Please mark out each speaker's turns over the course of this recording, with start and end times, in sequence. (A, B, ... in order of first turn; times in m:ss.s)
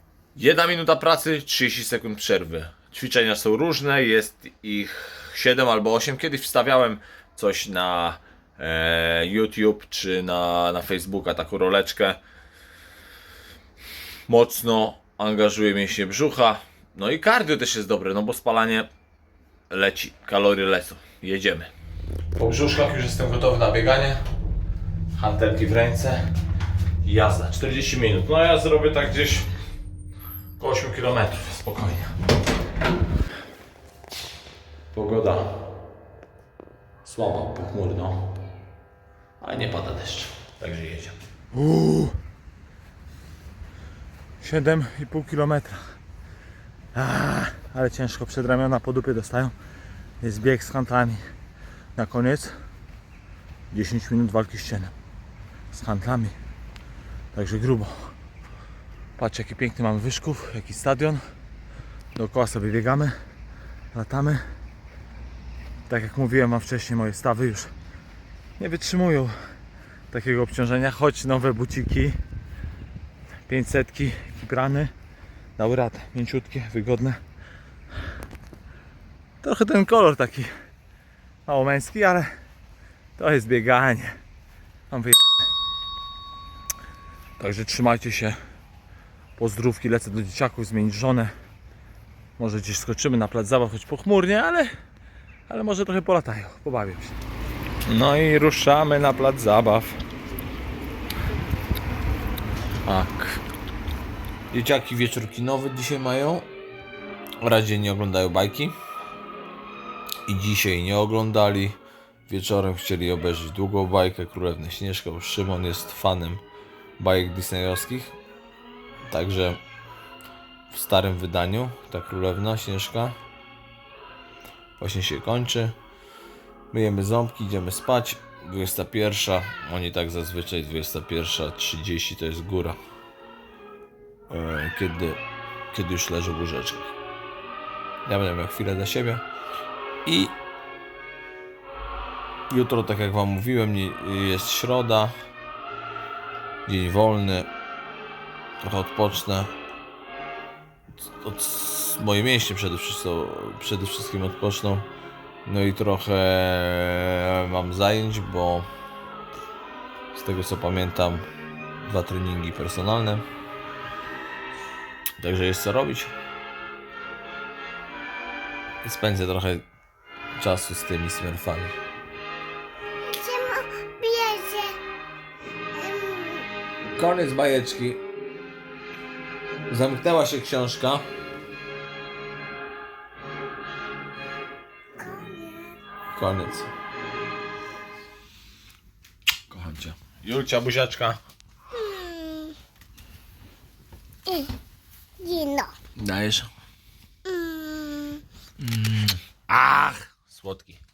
0:00.3-0:12.2 A
0:14.3-0:18.9 A
0:19.7-0:21.7 A
0:22.3-0:24.3 A
0:25.1-0:26.3 A
0:27.0-0:29.5 A
0:30.6-0:32.2 A
0:34.9-0:35.6 A
0:37.0-0:38.3 A
0:39.4-0:41.2 A
0:41.5-0:42.1 B
0:44.4-0:45.8 B
0:46.9-0:49.5 B
0:50.2-0:51.2 B
0:52.0-0:52.5 B
0:53.7-0:54.9 B
0:55.7-0:56.3 B
0:57.3-0:58.1 B
0:59.2-1:01.2 B
1:02.2-1:03.1 B
1:03.9-1:04.4 B
1:05.9-1:07.7 B
1:08.6-1:09.3 B
1:10.1-1:12.2 B
1:13.5-1:14.9 B
1:15.6-1:17.2 B
1:19.4-1:20.5 B
1:21.5-1:22.3 B
1:23.2-1:24.1 B
1:24.9-1:25.2 B
1:27.4-1:28.3 B
1:29.4-1:31.3 B
1:32.4-1:34.7 B
1:35.5-1:37.1 B
1:37.8-1:39.9 A
1:42.8-1:43.4 A
1:44.5-1:46.5 A
1:47.4-1:48.8 A
1:50.2-1:56.4 A
1:57.0-1:58.2 A
1:59.1-1:59.6 A
2:00.7-2:03.2 A
2:04.8-2:05.8 A
2:06.7-2:12.8 A
2:14.3-2:16.9 A
2:18.0-2:19.2 A
2:20.0-2:20.4 A
2:22.5-2:25.1 A
2:26.6-2:27.5 A
2:28.6-2:29.5 A
2:31.2-2:34.9 A
2:35.4-2:38.7 A
2:40.1-2:41.3 A
2:41.8-2:43.2 A
2:45.2-2:46.1 A
2:48.8-2:49.6 A
2:50.3-2:51.7 A
2:53.1-2:53.7 C
2:55.8-2:56.4 C
2:56.9-2:58.0 A
2:59.7-3:01.0 A
3:05.0-3:05.7 C
3:06.1-3:06.7 A
3:09.5-3:11.2 A
3:11.8-3:12.5 C
3:15.2-3:15.7 C
3:16.0-3:16.5 A
3:17.3-3:18.2 C
3:18.6-3:20.8 A